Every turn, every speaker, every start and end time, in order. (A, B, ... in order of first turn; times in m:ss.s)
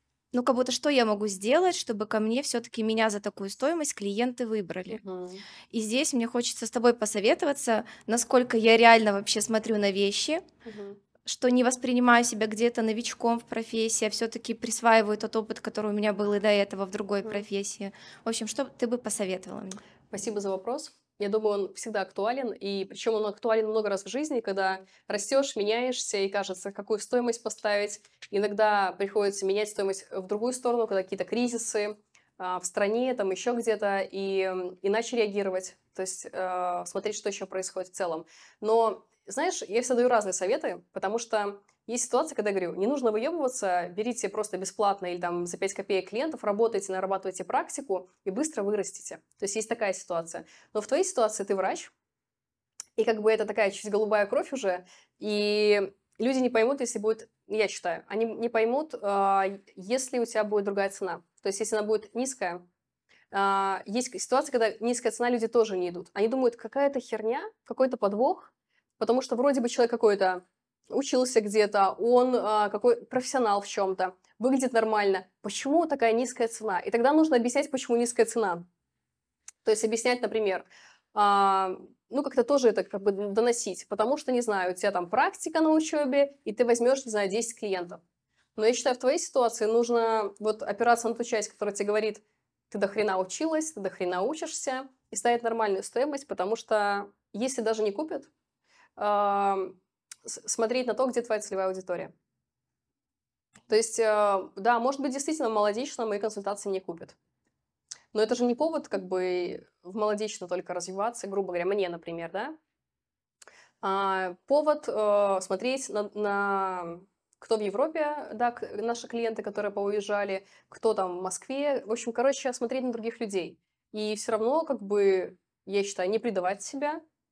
0:00.3-0:05.0 A
0:04.9-0:05.4 B
0:05.7-0:10.4 A
0:10.6-0:11.0 B
0:11.2-0:19.8 A
0:20.1-0:51.9 B
0:53.0-1:02.6 B
1:03.3-1:18.6 B
1:19.6-1:28.0 B
1:28.6-1:38.3 B
1:39.0-1:42.1 B
1:43.7-1:47.1 B
1:48.1-1:52.6 B
1:53.8-2:07.0 B